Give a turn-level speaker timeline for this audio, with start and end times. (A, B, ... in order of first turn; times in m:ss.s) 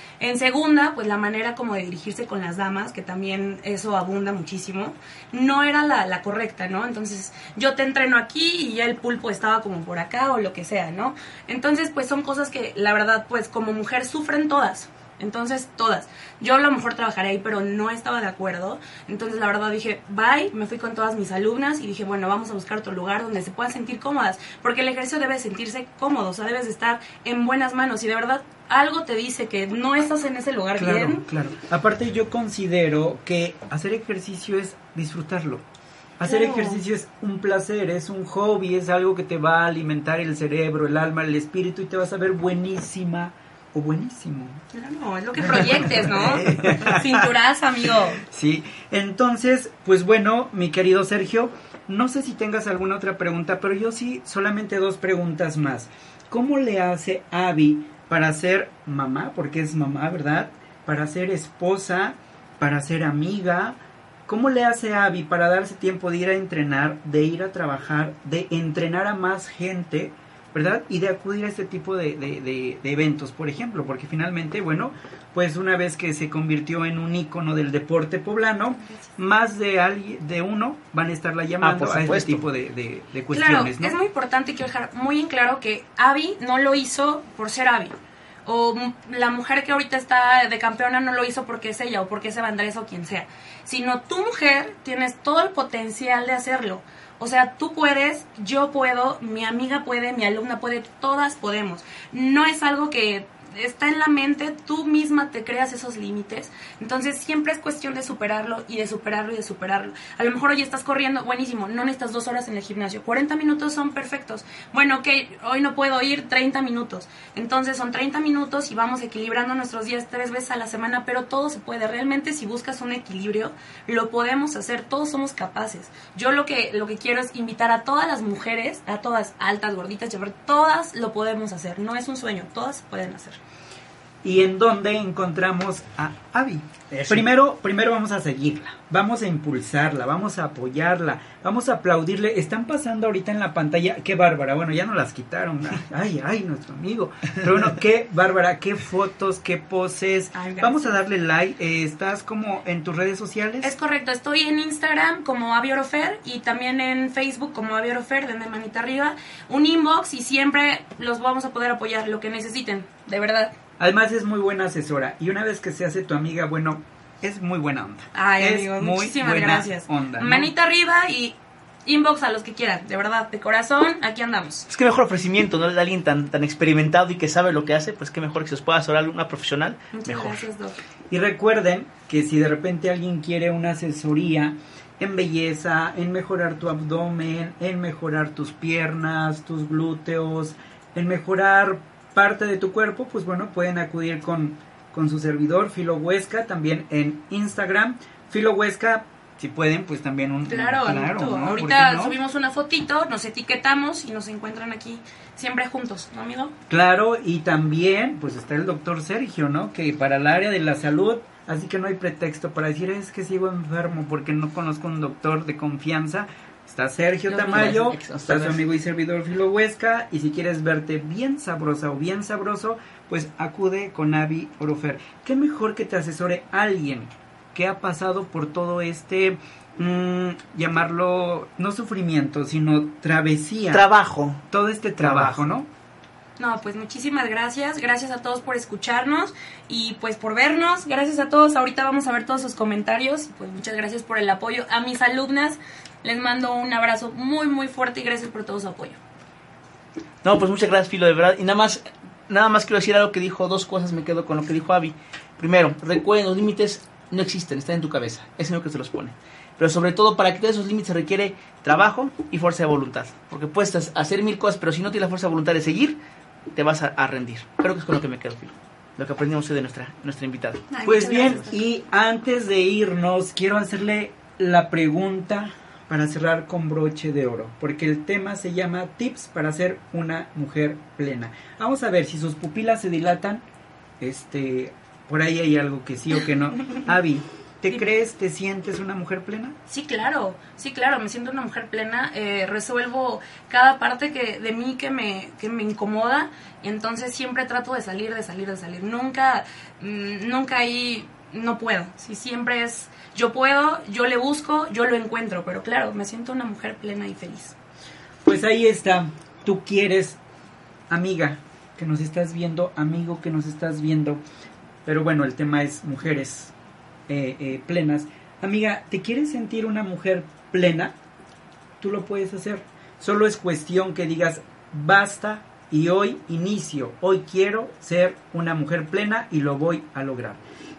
0:00.2-0:31.2 A
0:30.8-0:35.6 B
0:36.2-0:44.6 B
0:36.2-0:36.8 A
0:44.7-0:48.2 A
0:45.3-0:47.3 B
0:48.2-1:24.0 B
1:21.6-1:22.4 C
1:23.3-2:13.4 A
2:14.2-2:33.7 B
2:16.9-2:17.3 C
2:30.3-2:31.0 A
2:33.6-2:43.5 A
2:43.8-2:50.5 B
2:48.1-2:54.7 A
2:54.7-3:00.4 C
2:59.9-3:00.8 A
3:01.1-3:22.2 B
3:20.4-3:26.5 A
3:26.7-3:53.8 B
3:37.3-3:38.6 C
3:53.7-3:54.4 C
3:54.5-3:55.7 B
3:55.0-3:55.5 C
3:56.4-4:09.0 A
4:10.2-4:26.0 C
4:26.5-4:30.6 C
4:30.7-4:31.6 A
4:30.8-4:43.4 B
4:44.0-4:49.5 B
4:49.7-5:07.5 A
5:08.2-5:10.2 B
5:10.9-5:14.2 B
5:14.8-5:16.5 B
5:17.1-5:20.9 B
5:21.8-5:30.4 B